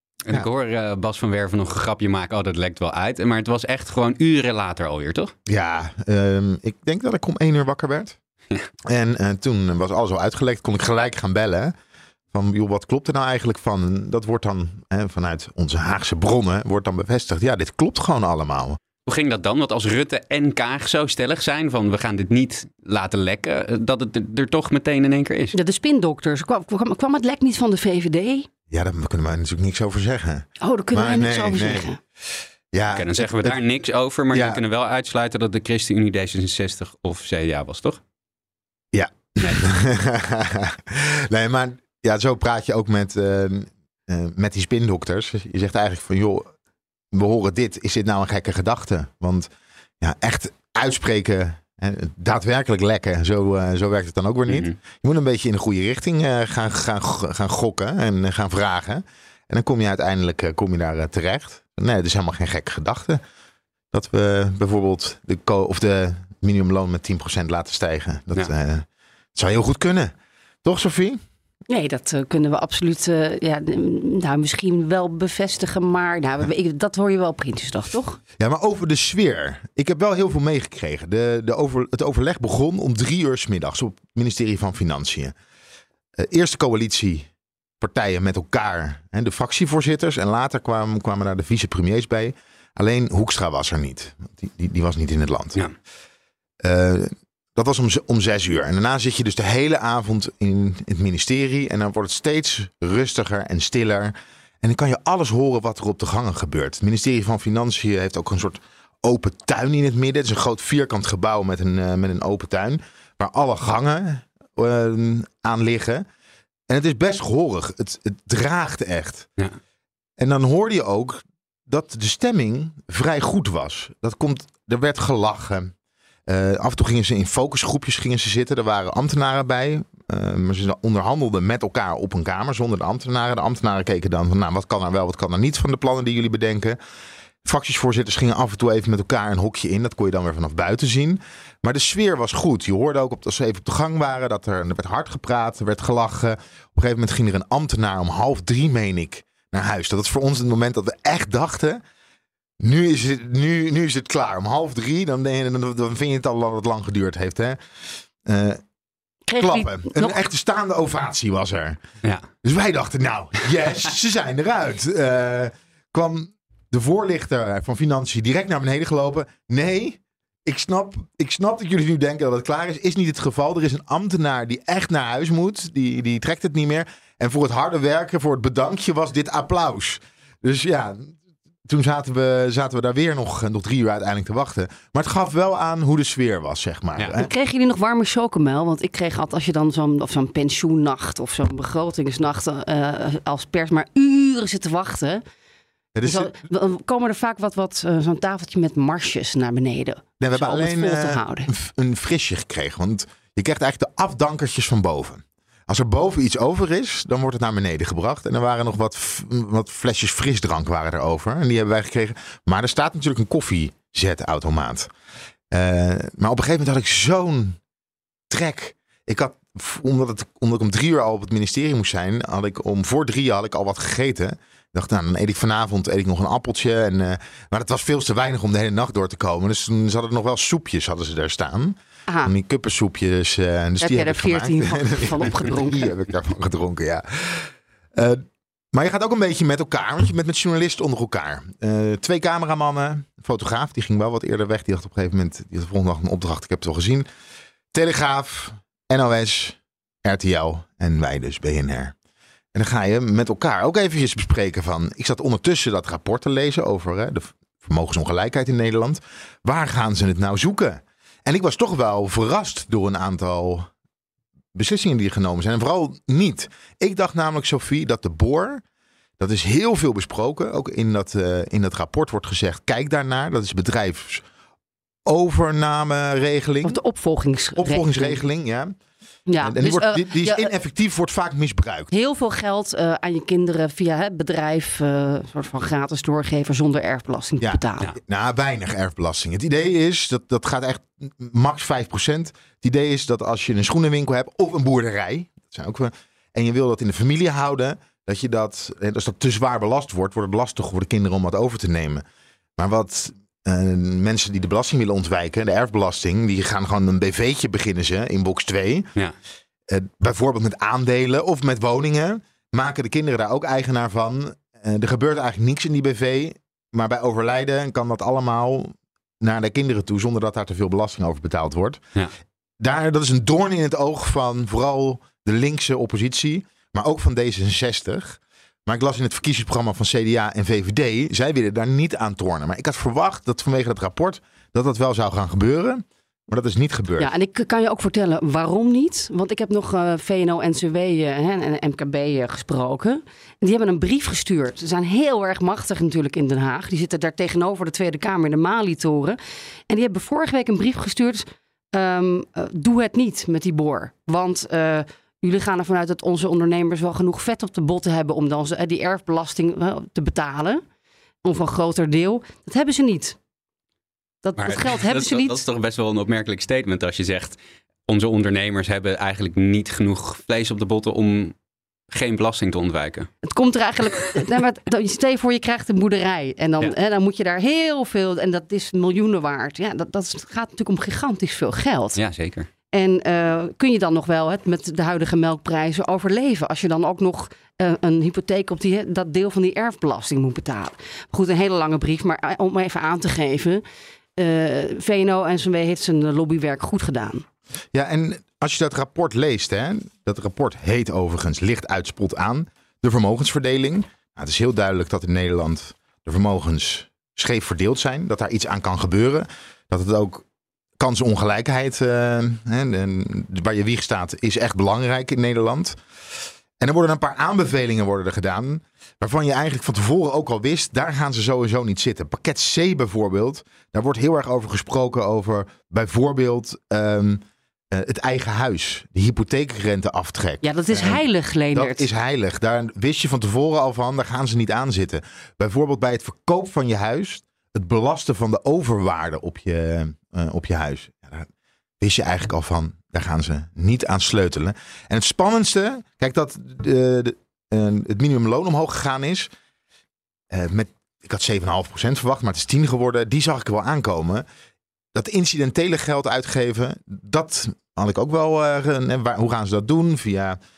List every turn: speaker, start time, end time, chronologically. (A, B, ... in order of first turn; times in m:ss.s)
0:00.3-0:05.3 A
0:05.5-0:08.2 B
0:08.9-0:11.7 B
0:12.3-0:18.8 B
0:19.0-0:25.6 A
0:25.5-0:28.5 C
0:28.7-0:31.9 B
0:30.6-0:32.0 C
0:32.7-0:33.6 B
0:33.0-0:38.0 A
0:34.3-0:34.6 B
0:38.9-0:46.5 B
0:47.1-0:49.5 B
0:50.0-1:03.2 B
0:54.5-0:54.8 A
1:03.9-1:10.1 B
1:10.6-1:11.2 B
1:11.7-1:18.2 C
1:18.4-1:25.3 B
1:26.2-1:27.3 B
1:27.8-1:35.6 B
1:36.6-1:56.0 B
1:56.7-1:59.3 B
2:00.2-2:05.7 B
2:06.3-2:16.8 B
2:17.4-2:31.8 B
2:32.6-2:38.6 B
2:39.3-2:40.2 C
2:39.4-2:41.8 B
2:42.4-3:07.3 B
3:07.2-3:15.2 C
3:16.0-3:16.3 B
3:16.0-3:21.5 C
3:20.2-3:34.9 B
3:35.5-3:37.6 B
3:38.3-4:07.1 B
3:53.8-3:55.9 C
4:07.7-4:12.0 B
4:12.5-4:23.7 B
4:24.6-4:28.6 B
4:29.2-4:34.2 B
4:35.1-4:36.8 B
4:36.6-4:38.2 C
4:37.6-4:38.8 B
4:39.3-4:40.5 C
4:39.4-4:41.9 B
4:41.9-4:47.9 C
4:47.4-5:02.0 B
5:02.6-5:08.9 B
5:09.7-5:21.8 B
5:22.6-5:37.1 B
5:37.0-5:49.2 C
5:49.7-6:00.6 C
6:01.2-6:03.2 C
6:04.2-6:05.4 C
6:04.4-6:11.4 A
6:11.9-6:13.1 A
6:13.2-6:22.0 C
6:22.0-6:22.5 A
6:22.7-6:33.6 C
6:34.2-6:37.2 C
6:37.7-6:50.2 B
6:50.8-6:55.8 B
6:56.6-7:21.3 B
7:10.4-7:11.9 C
7:21.8-7:29.3 B
7:30.3-7:34.3 B
7:34.9-7:40.4 B